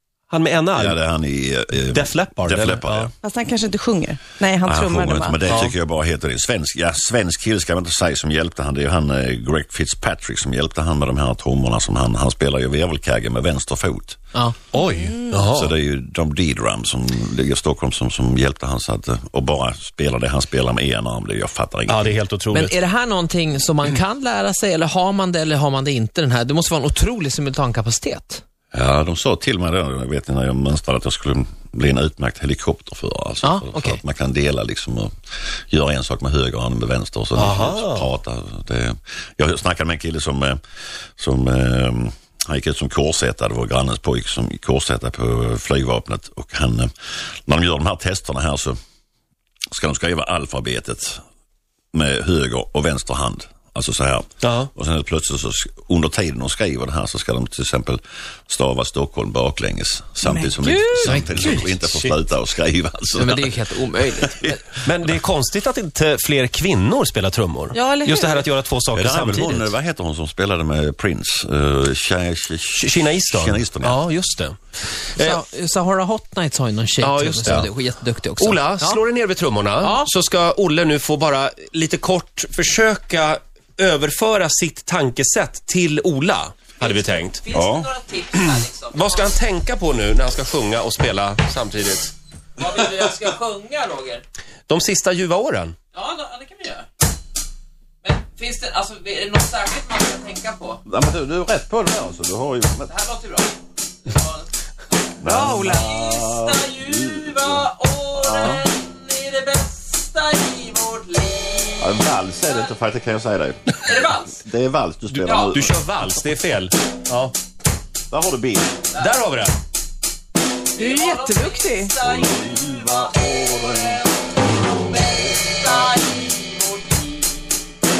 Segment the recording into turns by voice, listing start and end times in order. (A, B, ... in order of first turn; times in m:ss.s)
0:00.3-0:01.0 A
0:00.8-0:03.1 B
0:01.8-0:03.1 A
0:03.2-0:05.4 C
0:04.6-0:14.2 B
0:05.5-0:05.7 A
0:14.7-0:15.7 A
0:15.3-0:22.2 B
0:21.9-0:22.8 A
0:22.5-0:28.4 D
0:28.7-0:40.6 B
0:33.4-0:34.0 D
0:37.4-0:38.1 A
0:41.2-0:46.9 B
0:47.4-0:48.8 B
0:49.7-0:51.2 B
0:51.9-1:04.6 B
0:54.4-0:54.7 A
1:00.3-1:01.1 C
1:00.7-1:01.7 D
1:03.1-1:04.6 D
1:04.8-1:09.7 A
1:07.7-1:08.5 C
1:08.9-1:14.0 B
1:12.7-1:14.6 A
1:15.1-1:19.0 D
1:17.0-1:17.7 A
1:18.4-1:27.4 A
1:19.8-1:20.1 D
1:26.8-1:29.3 D
1:27.5-1:27.9 B
1:28.3-1:32.1 A
1:32.6-1:34.2 D
1:34.7-1:35.8 A
1:35.9-1:36.9 D
1:38.0-1:40.8 D
1:40.8-1:42.9 B
1:42.9-1:44.5 D
1:45.2-1:47.6 B
1:45.2-1:45.9 C
1:45.5-1:51.9 D
1:48.1-1:48.6 B
1:51.8-1:55.8 B
1:53.8-1:54.4 D
1:55.1-1:55.5 D
1:55.5-1:57.3 A
1:58.1-1:58.8 B
1:59.0-1:59.6 A
2:00.7-2:07.6 D
2:00.8-2:01.9 C
2:02.0-2:04.0 B